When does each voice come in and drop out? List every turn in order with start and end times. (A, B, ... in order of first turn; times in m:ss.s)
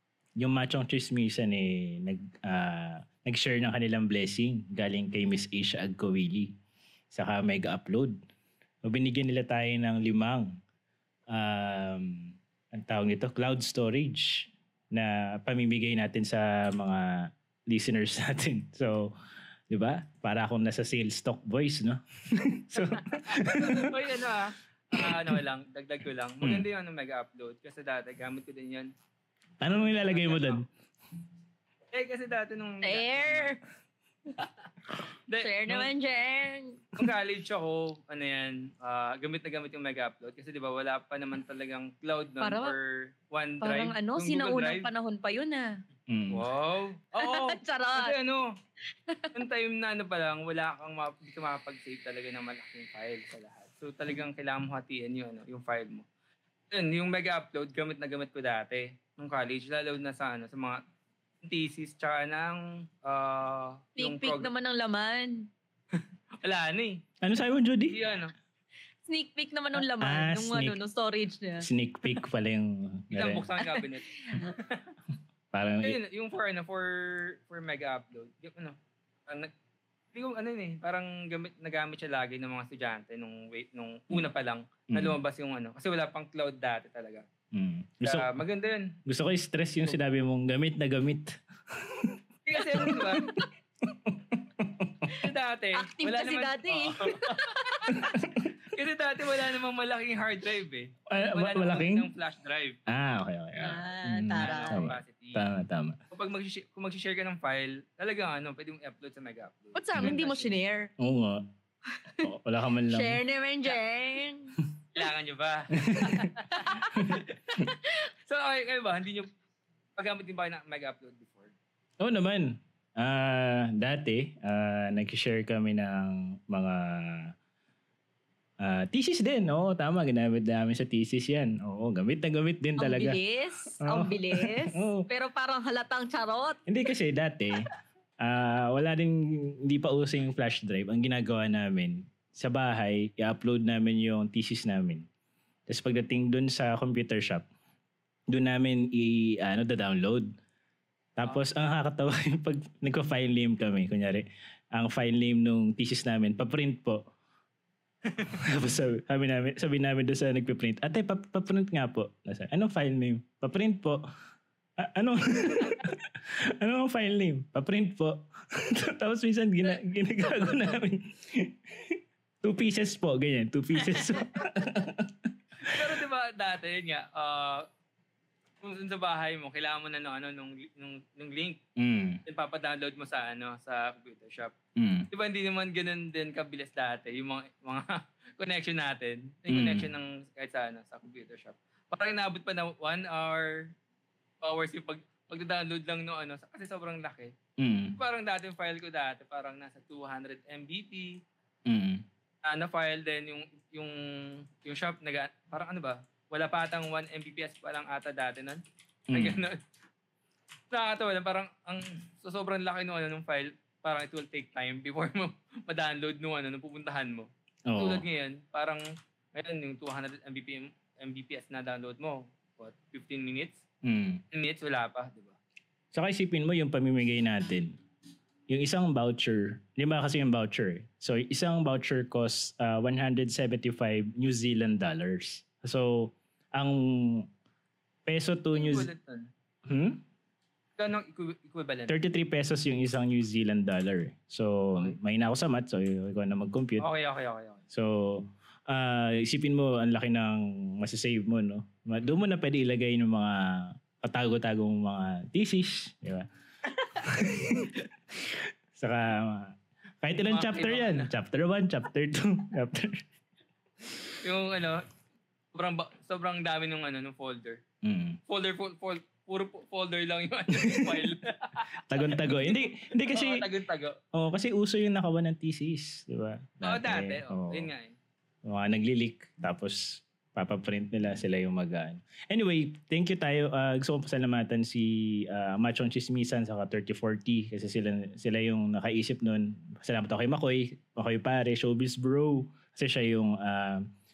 0:00.4-0:06.5 A
0:07.1-0:08.2 A
0:08.8-0:10.5 A
0:11.3-0:19.1 A
0:19.7-0:24.1 A
0:22.9-0:28.9 B
0:24.9-0:25.4 A
0:26.4-0:26.7 A
0:29.6-0:30.6 A
0:29.7-0:30.6 B
0:31.9-0:33.5 B
0:32.8-0:33.6 C
0:35.3-0:35.9 B
0:35.4-0:36.8 C
0:37.0-0:44.9 B
0:42.4-0:42.7 C
0:43.6-0:45.8 C
0:46.1-0:46.5 A
0:46.3-0:48.6 B
0:47.2-0:48.2 C
0:49.1-0:49.4 C
0:49.3-0:56.1 B
0:56.7-1:00.8 B
1:01.4-1:04.5 B
1:04.0-1:05.5 C
1:05.9-1:07.0 B
1:07.2-1:08.0 A
1:07.9-1:08.3 B
1:09.0-1:11.7 C
1:09.8-1:10.8 A
1:11.6-1:13.5 A
1:13.1-1:14.8 B
1:13.7-1:14.5 C
1:15.5-1:16.0 A
1:15.8-1:19.5 B
1:20.1-1:27.2 B
1:24.9-1:25.2 A
1:27.5-1:28.3 A
1:28.0-1:29.0 B
1:29.0-1:32.2 A
1:32.4-1:33.3 B
1:32.8-1:33.5 C
1:34.0-1:35.1 A
1:35.2-1:37.5 B
1:35.7-1:38.2 C
1:37.9-1:38.5 A
1:38.7-1:42.8 B
1:41.1-1:42.1 A
1:42.9-1:46.0 A
1:43.6-1:44.8 C
1:44.4-1:45.4 B
1:46.1-1:50.5 B
1:49.7-1:50.9 C
1:51.0-1:51.5 A
1:51.9-1:52.3 C
1:52.2-1:53.2 A
1:52.9-1:54.6 C
1:54.9-1:57.7 B
1:55.8-1:56.3 A
1:56.5-1:57.0 C
1:57.0-1:57.2 A
1:58.2-1:59.3 B
2:00.0-2:01.5 B
2:02.0-2:07.3 A
2:08.6-2:15.1 A
2:12.8-2:16.6 C
2:16.7-2:25.1 A
2:25.7-2:27.5 A
2:28.3-2:30.3 A
2:31.2-2:37.0 A
2:31.2-2:31.5 B
2:38.1-2:38.3 B
2:38.2-2:44.0 A
2:44.8-2:56.0 A
2:55.6-2:57.7 B
2:58.6-3:01.6 B
3:01.8-3:02.2 A
3:02.2-3:04.5 B
3:04.8-3:05.1 A
3:05.1-3:13.7 B
3:09.5-3:09.9 A
3:14.4-3:17.3 B
3:17.6-3:18.0 A
3:18.0-3:21.2 B
3:21.7-3:22.0 A
3:22.4-3:29.6 B
3:29.1-3:29.4 A
3:30.7-3:43.6 B
3:37.7-3:38.0 A
3:43.8-3:44.2 A
3:44.3-3:45.4 B
3:45.9-3:47.8 A
3:48.5-3:57.3 A
3:58.0-3:58.9 A
3:58.5-3:59.3 B
3:59.6-4:00.0 A
4:00.8-4:01.9 B
4:01.9-4:06.9 A
4:06.8-4:07.6 B
4:07.7-4:16.3 A
4:17.0-4:23.0 A
4:20.2-4:21.1 B
4:24.2-4:24.8 B
4:25.5-4:27.6 B
4:27.8-4:28.2 A
4:28.3-4:34.0 B
4:30.5-4:31.1 A
4:31.8-4:33.5 A
4:34.1-4:37.7 A
4:36.6-4:37.9 B
4:38.4-4:53.9 A